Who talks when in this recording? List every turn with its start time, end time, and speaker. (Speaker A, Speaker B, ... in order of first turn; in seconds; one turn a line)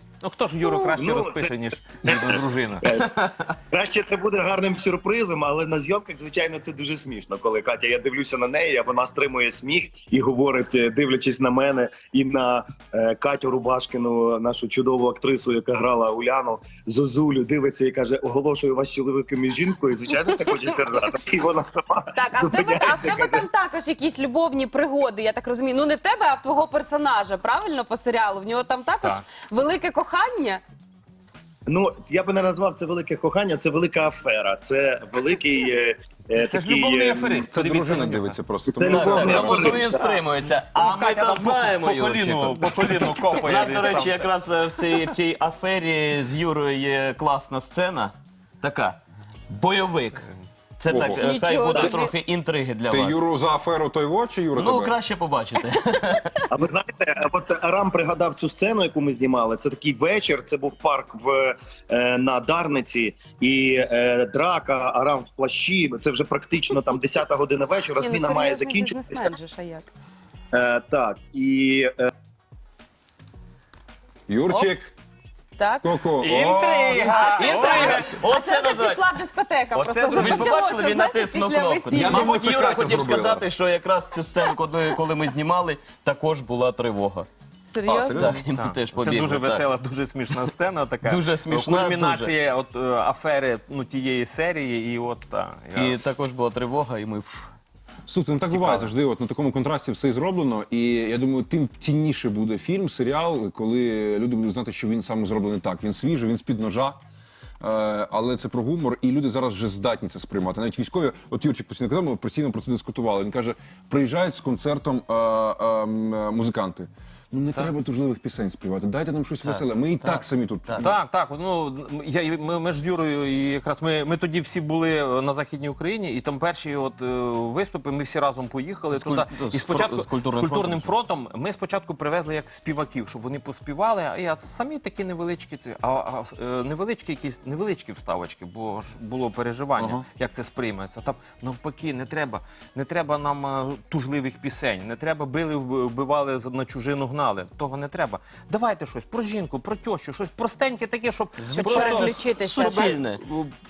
Speaker A: 0.2-2.9
Speaker B: 0.9-1.5
Speaker B: 2.0-23.5
Speaker C: 22.2-30.6
Speaker B: 31.7-37.5
Speaker A: 36.3-38.4
Speaker D: 37.5-39.8
Speaker B: 38.7-40.2
Speaker E: 38.8-50.3
Speaker A: 40.8-44.3
Speaker E: 50.8-53.2
Speaker D: 50.9-51.2
Speaker C: 51.2-52.1
Speaker D: 52.9-55.0
Speaker E: 54.5-56.4
Speaker B: 56.5-69.3
Speaker C: 68.0-69.9
Speaker B: 70.5-72.1
Speaker D: 74.3-74.9
Speaker C: 75.6-75.8
Speaker D: 75.8-77.1
Speaker A: 76.2-78.2
Speaker C: 76.4-82.3
Speaker E: 77.5-79.1
Speaker E: 79.7-87.3
Speaker D: 81.9-83.5
Speaker C: 87.7-88.3
Speaker D: 87.9-88.4
Speaker E: 88.1-89.7
Speaker A: 88.5-96.0
Speaker E: 91.0-92.3
Speaker E: 95.8-97.5
Speaker D: 98.1-107.0
Speaker A: 98.5-98.8
Speaker D: 107.6-121.0
Speaker E: 119.5-120.9
Speaker A: 120.8-152.9
Speaker E: 128.9-130.9
Speaker D: 139.8-140.0
Speaker E: 151.4-153.3
Speaker C: 151.5-153.0